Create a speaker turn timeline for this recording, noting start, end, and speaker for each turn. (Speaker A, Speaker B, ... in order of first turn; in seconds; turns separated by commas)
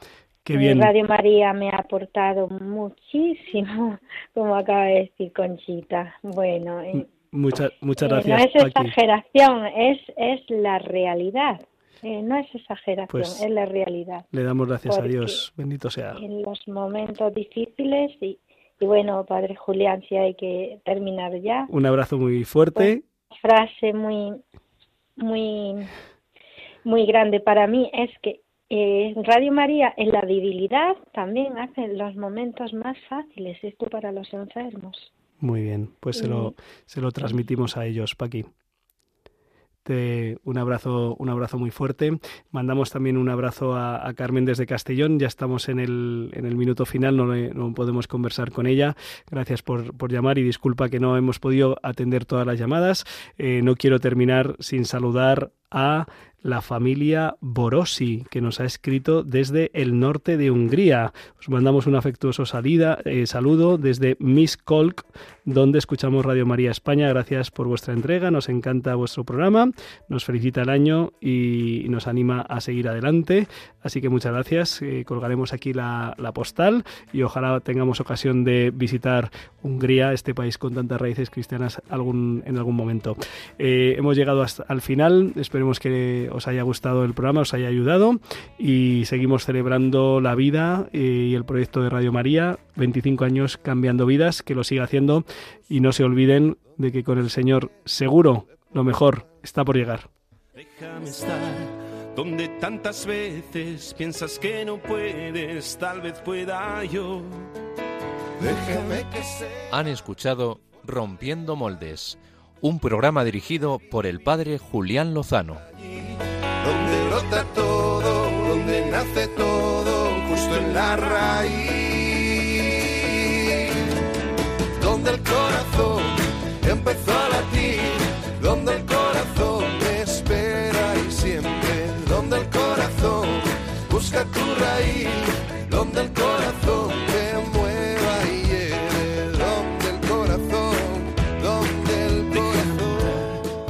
Speaker A: 0.5-0.9, Speaker B: 0.6-7.1, Speaker A: 7.0-8.9, Speaker B: 8.0-14.3, Speaker A: 13.1-13.4, Speaker A: 14.3-16.2, Speaker B: 14.9-15.4, Speaker B: 16.2-21.7, Speaker A: 21.7-23.0, Speaker B: 22.8-24.4, Speaker B: 25.2-25.9, Speaker B: 26.9-35.1, Speaker A: 35.4-38.5, Speaker B: 36.2-36.5, Speaker A: 39.9-100.1, Speaker C: 100.5-107.5, Speaker D: 108.4-109.6, Speaker C: 108.5-109.2, Speaker E: 109.7-115.6, Speaker D: 116.6-123.7, Speaker D: 124.8-143.3, Speaker C: 142.3-143.4